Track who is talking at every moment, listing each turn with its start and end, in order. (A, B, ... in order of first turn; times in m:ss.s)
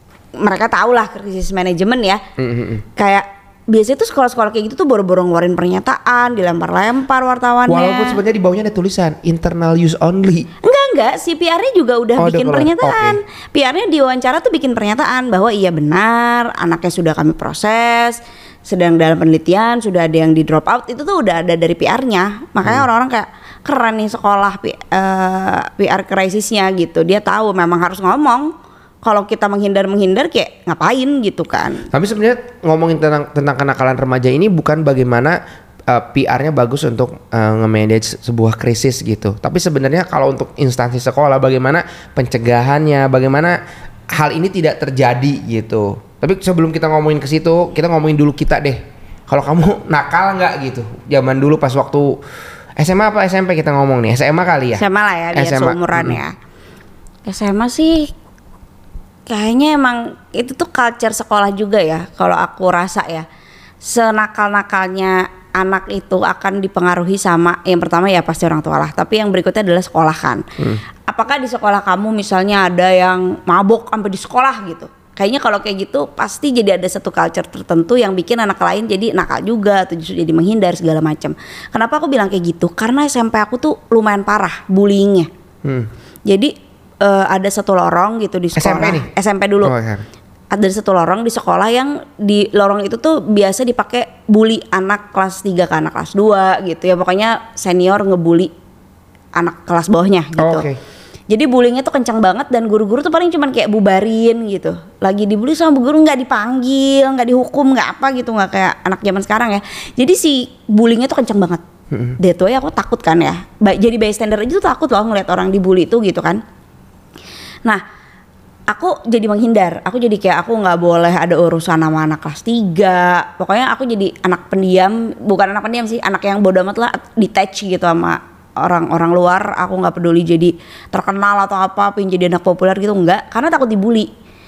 0:00.4-0:02.2 A
0:02.4-0:02.8 B
0:03.0-0:08.2 A
0:07.7-0:10.5 B
0:10.6-0:28.5 A
0:12.2-0:13.2 B
0:29.0-0:31.9 A
0:31.9-0:43.6 B
0:44.1-0:52.2 B
0:52.8-0:56.2 B
0:54.8-0:56.4 A
0:57.3-0:58.1 A
0:59.3-1:03.3 A
1:03.8-1:10.4 A
1:11.0-1:25.3 A
1:25.6-1:25.9 B
1:26.3-1:29.7 A
1:28.6-1:29.1 B
1:29.6-1:30.0 B
1:30.5-1:38.5 A
1:39.4-1:40.6 A
1:40.4-1:40.8 B
1:41.3-1:51.6 A
1:51.9-1:52.2 B
1:52.2-1:56.4 A
1:58.7-2:14.1 A